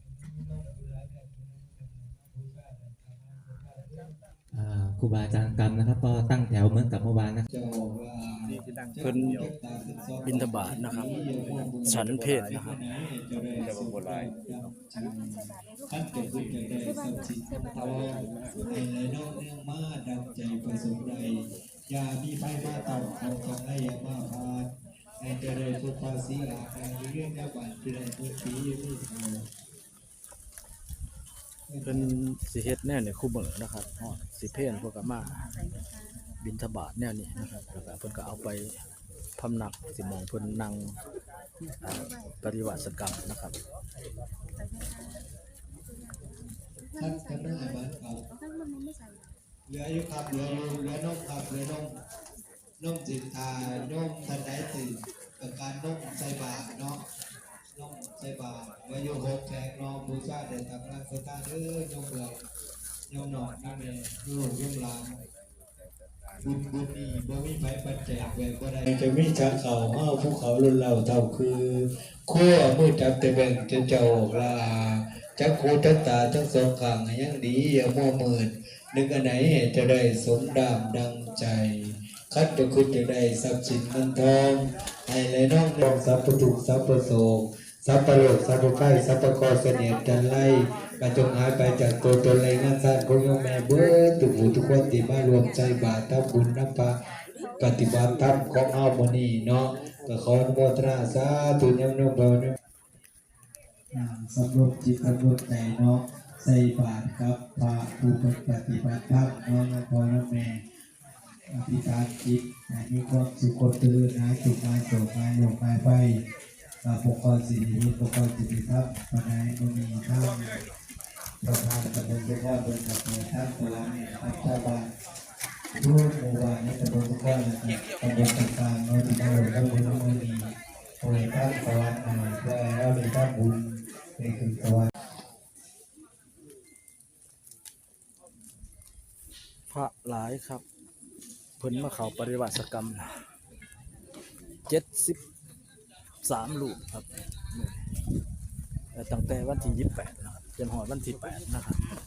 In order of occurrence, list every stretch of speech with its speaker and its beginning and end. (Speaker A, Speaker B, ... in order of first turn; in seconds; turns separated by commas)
Speaker A: 4.5-7.4, Speaker B: 7.5-24.7, Speaker C: 9.0-9.3, Speaker C: 10.2-11.1, Speaker C: 11.8-12.7, Speaker B: 25.2-29.5, Speaker B: 31.7-32.0, Speaker C: 31.8-35.4, Speaker C: 36.4-38.8, Speaker C: 39.4-40.9, Speaker C: 41.8-43.5, Speaker B: 46.9-48.2, Speaker B: 49.7-52.0, Speaker B: 52.8-57.0, Speaker B: 57.7-62.4, Speaker B: 63.1-65.2, Speaker B: 66.4-96.9, Speaker B: 97.6-102.5, Speaker B: 103.9-110.6, Speaker B: 111.5-116.2, Speaker B: 116.8-120.6, Speaker B: 121.4-124.9, Speaker B: 125.7-134.9, Speaker C: 139.7-140.6, Speaker C: 141.6-143.1, Speaker C: 144.7-145.2, Speaker C: 146.2-147.8, Speaker C: 148.9-151.8